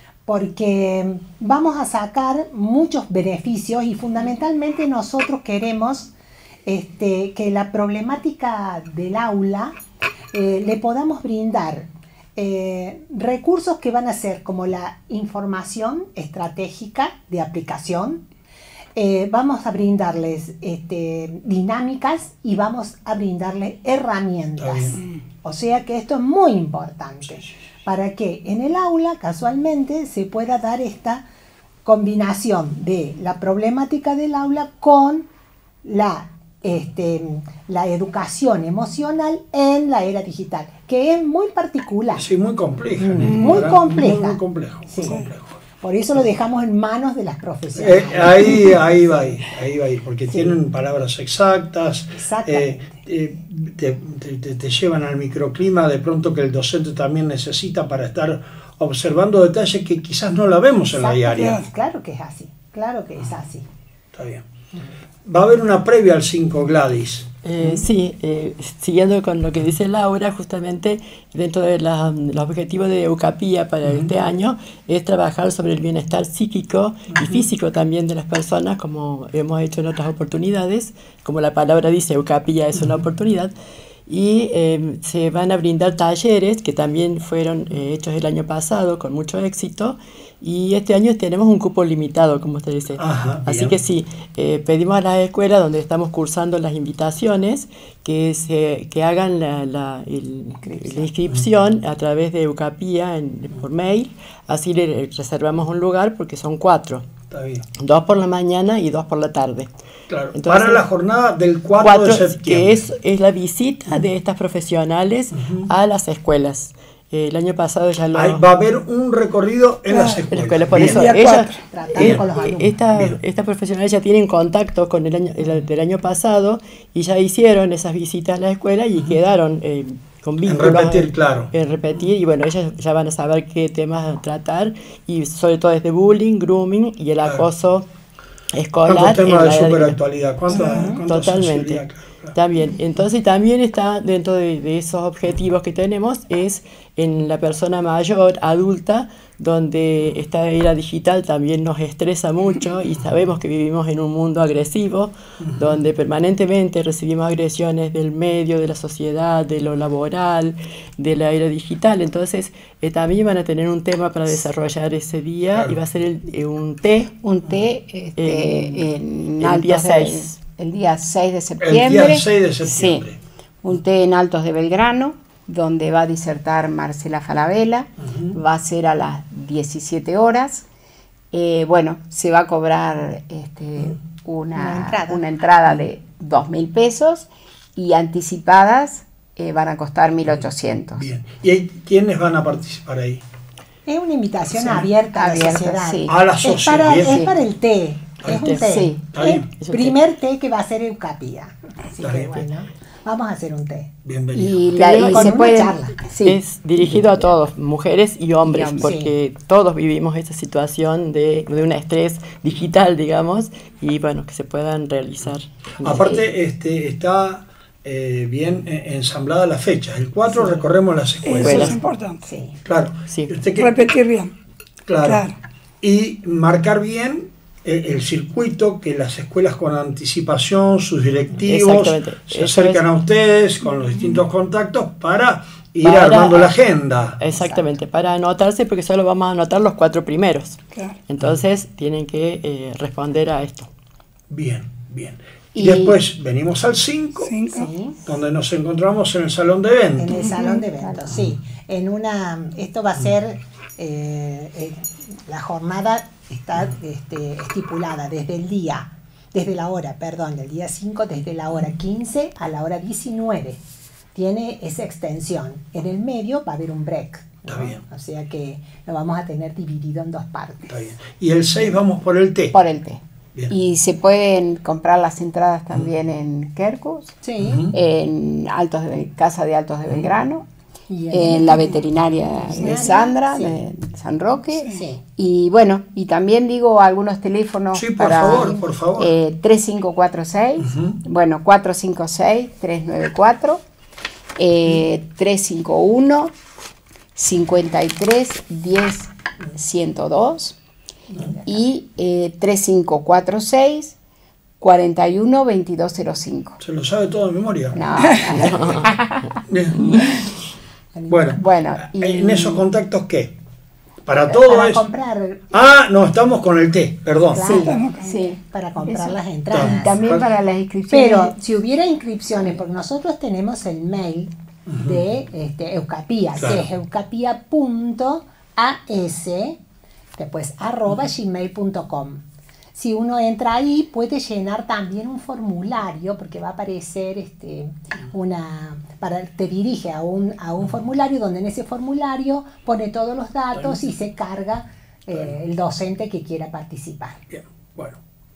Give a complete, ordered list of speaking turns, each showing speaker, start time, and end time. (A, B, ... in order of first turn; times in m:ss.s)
0:00.3-0:06.1 A
0:06.6-0:09.8 A
0:10.3-0:18.2 A
0:19.0-0:31.3 A
0:24.6-0:25.0 B
0:31.8-0:35.3 A
0:35.8-0:42.3 A
0:42.2-0:45.6 B
0:43.0-0:45.2 A
0:43.3-0:43.7 C
0:45.0-0:45.3 C
0:45.8-0:48.8 A
0:47.8-1:01.6 B
0:50.3-0:50.6 A
0:52.1-0:53.0 A
1:00.9-1:03.7 A
1:01.4-1:01.6 C
1:04.1-1:04.4 B
1:05.3-1:07.8 B
1:07.4-1:23.5 D
1:13.9-1:14.1 B
1:17.1-1:17.4 B
1:24.1-1:47.1 D
1:33.0-1:33.8 B
1:40.6-1:41.1 A
1:47.3-1:47.7 B
1:47.8-1:49.7 D
1:50.1-1:52.8 B
1:50.3-1:50.8 D
1:51.8-1:58.4 D
1:55.3-1:55.7 B
1:58.2-2:02.3 B
1:59.9-2:00.2 C
2:00.3-2:17.9 D
2:00.9-2:02.8 A
2:10.4-2:11.5 B
2:18.5-2:20.0 D
2:18.8-2:22.4 B
2:20.5-2:20.9 C
2:21.0-2:21.8 D
2:22.4-2:47.1 D
2:35.4-2:35.7 B
2:47.2-2:53.1 E
2:48.2-2:48.9 D
2:49.4-2:50.4 D
2:51.6-2:53.2 B
2:53.6-3:00.7 E
2:58.1-2:58.3 B
3:01.3-3:11.0 E
3:04.6-3:05.5 A
3:10.3-3:13.2 B
3:13.9-3:23.9 A
3:14.6-3:16.2 E
3:16.1-3:17.3 B
3:16.7-3:17.4 E
3:18.2-3:19.5 B
3:18.3-3:18.6 D
3:18.6-3:19.4 E
3:19.5-3:20.0 D
3:22.0-3:22.5 B
3:24.0-3:24.8 B
3:24.4-3:26.4 E
3:24.8-3:25.3 D
3:25.0-3:26.1 A
3:26.2-3:35.5 D
3:28.4-3:28.9 E
3:28.8-3:29.1 A
3:35.8-3:41.8 B
3:35.8-3:36.3 E
3:41.2-3:42.2 C
3:41.4-3:41.8 D
3:42.3-3:42.6 A
3:42.6-3:43.8 B
3:43.1-3:43.4 D
3:43.6-3:44.3 C
3:44.9-3:45.2 B
3:45.0-3:45.4 C
3:45.8-3:57.2 B
3:51.4-3:52.9 D
3:54.0-3:54.2 C
3:55.8-3:56.5 D
3:57.2-4:03.7 D
3:57.3-3:57.7 A
4:04.3-4:07.4 B
4:05.6-4:06.0 E
4:07.2-4:07.7 C
4:07.5-4:08.0 A
4:08.1-4:10.2 B
4:10.0-4:23.6 A
4:10.2-4:10.6 C
4:10.8-4:11.0 E
4:24.2-4:30.9 A
4:27.5-4:27.8 B
4:30.7-4:32.6 B
4:32.5-4:37.2 E
4:37.2-4:37.7 A
4:37.4-4:37.7 B
4:37.7-4:40.5 E
4:40.9-4:41.8 A
4:41.1-4:53.6 E
4:42.6-4:43.5 A
4:44.6-4:44.8 C
4:47.7-4:49.1 B
4:48.2-4:48.6 A
4:50.6-4:51.0 B
4:54.4-4:56.4 E
4:57.2-5:00.6 E
5:01.4-5:04.0 E
5:04.6-5:06.6 E
5:06.6-5:07.8 B
5:07.7-5:10.1 E
5:09.5-5:09.8 B
5:11.0-5:11.3 A
5:11.1-5:13.4 B
5:11.3-5:12.6 E
5:14.1-5:14.9 B
5:14.3-5:15.5 A
5:15.5-5:17.6 B
5:17.3-5:17.8 A
5:17.4-5:21.4 E
5:17.5-5:18.2 C
5:18.5-5:20.0 A
5:19.5-5:20.2 B
5:20.9-5:24.3 A
5:24.7-5:25.0 B
5:24.8-5:29.6 A
5:26.4-5:26.7 B
5:30.2-5:47.2 A
5:43.5-5:43.9 B
5:47.3-5:48.0 B